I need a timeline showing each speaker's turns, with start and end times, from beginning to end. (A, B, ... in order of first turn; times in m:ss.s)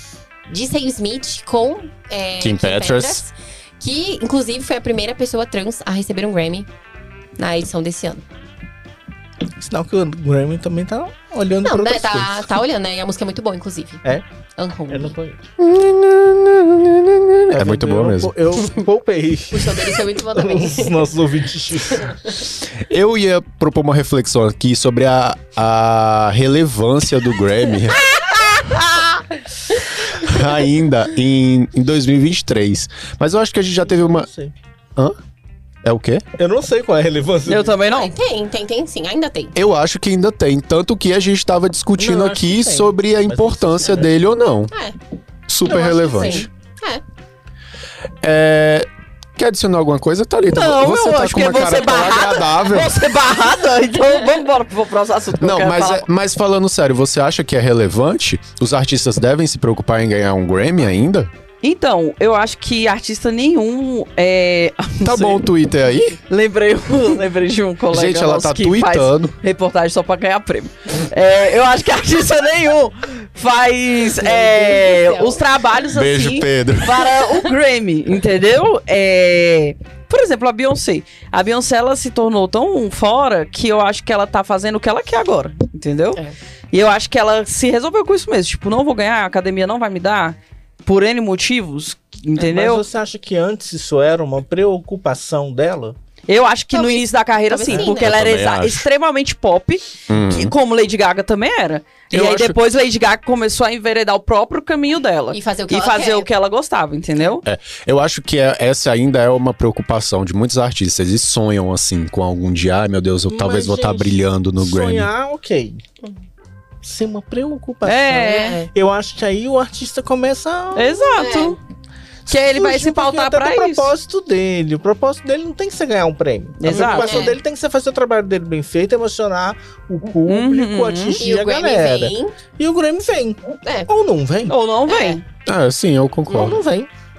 0:00.5-0:06.7 A
0:02.4-0:03.2 B
0:07.4-0:08.2 A
0:09.6-0:12.4 C
0:11.6-0:14.0 A
0:14.6-0:15.2 A
0:14.9-0:15.4 C
0:15.6-0:18.3 B
0:17.5-0:22.3 C
0:19.5-0:21.1 A
0:22.8-0:28.2 B
0:28.2-0:29.2 D
0:30.1-0:34.3 B
0:33.9-0:34.5 C
0:35.8-0:36.2 B
0:36.4-0:37.8 C
0:37.5-0:38.1 D
0:37.9-0:39.6 A
0:39.6-0:44.7 B
0:42.0-0:44.1 C
0:44.7-0:45.0 A
0:45.5-0:46.5 B
0:45.7-0:47.0 A
0:45.7-0:46.4 C
0:48.2-0:53.0 B
0:50.5-0:56.1 D
0:55.4-1:01.3 B
1:01.6-1:05.5 D
1:05.0-1:06.2 B
1:06.3-1:26.2 D
1:07.9-1:09.4 B
1:14.1-1:15.4 A
1:15.9-1:17.1 B
1:26.7-1:32.8 D
1:32.4-1:36.0 C
1:36.3-1:47.4 D
1:36.7-1:38.1 A
1:37.8-1:38.9 B
1:40.1-1:40.5 B
1:42.1-1:42.6 B
1:45.3-1:46.3 A
1:47.4-1:55.1 B
1:53.3-1:55.8 C
1:56.8-2:01.0 C
1:57.8-1:58.6 D
1:58.2-1:58.7 A
2:00.8-2:01.6 D
2:01.2-2:01.6 A
2:02.3-2:03.9 D
2:02.3-2:14.6 C
2:06.6-2:07.4 D
2:06.7-2:07.4 A
2:10.2-2:11.2 D
2:11.2-2:12.4 A
2:13.6-2:13.9 A
2:14.5-2:15.2 D
2:14.9-2:15.2 A
2:15.5-2:16.6 B
2:16.3-2:16.9 C